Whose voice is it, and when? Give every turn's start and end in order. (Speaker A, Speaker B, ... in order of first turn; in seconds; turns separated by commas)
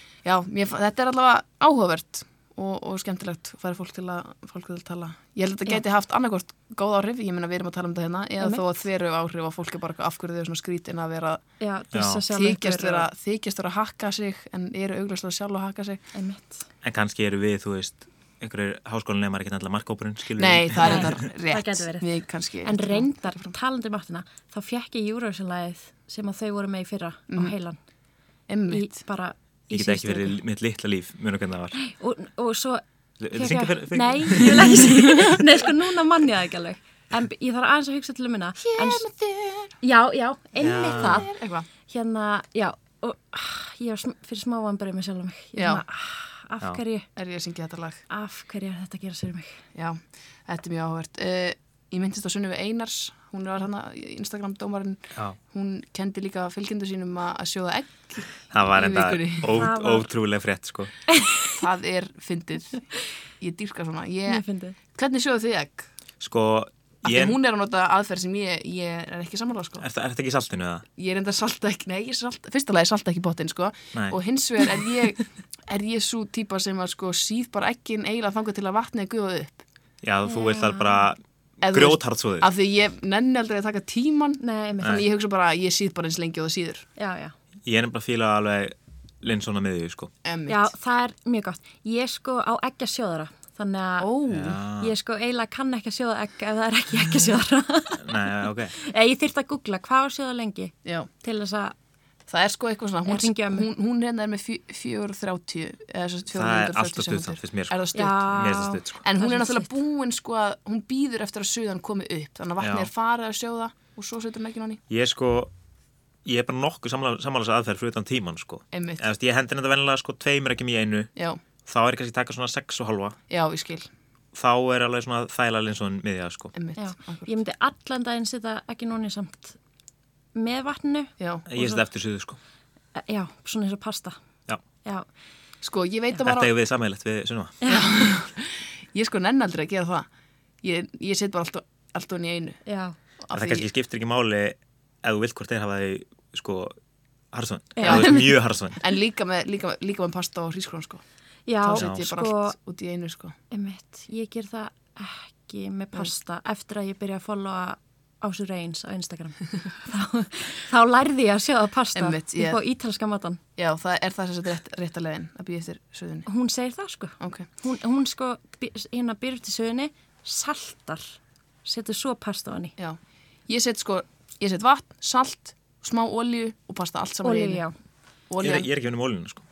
Speaker A: 0.2-11.4, Speaker B: 11.6-13.1, Speaker C: 11.9-12.2, Speaker A: 12.3-16.0, Speaker B: 16.1-16.7, Speaker C: 16.8-21.2, Speaker A: 20.4-23.5, Speaker B: 20.8-27.8, Speaker A: 28.5-29.0, Speaker B: 28.7-30.4, Speaker C: 29.7-31.8, Speaker B: 31.7-39.0, Speaker C: 33.2-34.9, Speaker A: 34.6-35.2, Speaker A: 38.6-39.8, Speaker B: 39.8-41.3, Speaker C: 40.6-41.3, Speaker A: 40.8-41.7, Speaker B: 41.9-47.1, Speaker A: 45.6-45.8, Speaker A: 47.2-48.0, Speaker B: 48.1-49.6, Speaker A: 49.8-59.6, Speaker C: 58.5-60.9, Speaker B: 59.5-60.1, Speaker B: 61.1-61.5, Speaker A: 61.6-62.9, Speaker A: 63.4-65.9, Speaker B: 64.3-64.8, Speaker C: 66.2-67.4, Speaker A: 67.0-69.8, Speaker C: 69.8-70.8, Speaker A: 71.0-79.6, Speaker C: 80.0-82.5, Speaker B: 80.2-81.1, Speaker A: 81.6-86.9, Speaker B: 84.4-85.0, Speaker B: 87.0-87.3, Speaker C: 87.7-90.1, Speaker A: 90.2-90.7, Speaker B: 90.5-94.1, Speaker A: 94.0-94.6, Speaker C: 94.3-94.9, Speaker B: 94.8-101.8, Speaker C: 98.0-98.7, Speaker A: 102.3-114.8, Speaker B: 103.1-103.7, Speaker C: 106.3-107.8, Speaker B: 108.0-109.7, Speaker C: 108.3-109.0, Speaker C: 112.6-112.9, Speaker C: 114.9-115.5, Speaker C: 116.2-121.1, Speaker A: 118.7-119.1, Speaker C: 121.7-123.2, Speaker A: 123.3-123.9, Speaker C: 124.3-126.5, Speaker A: 126.5-127.3, Speaker B: 126.8-129.6, Speaker B: 130.3-131.8, Speaker A: 131.2-131.4, Speaker C: 131.5-132.4, Speaker B: 133.0-134.2, Speaker A: 135.6-136.5, Speaker C: 136.2-137.6, Speaker A: 137.7-140.1, Speaker A: 140.6-142.6, Speaker B: 142.7-142.9, Speaker A: 143.2-143.7, Speaker C: 143.3-146.8, Speaker C: 147.3-148.8, Speaker B: 147.8-148.3, Speaker A: 147.8-148.2, Speaker A: 148.8-151.0, Speaker B: 151.5-152.6, Speaker A: 151.6-153.4, Speaker C: 151.8-152.0, Speaker B: 153.5-163.4, Speaker A: 162.0-162.6, Speaker A: 163.6-166.3, Speaker B: 166.3-172.7, Speaker A: 167.2-167.5, Speaker A: 173.5-177.6, Speaker B: 177.2-177.7, Speaker A: 178.3-178.7, Speaker C: 178.4-179.4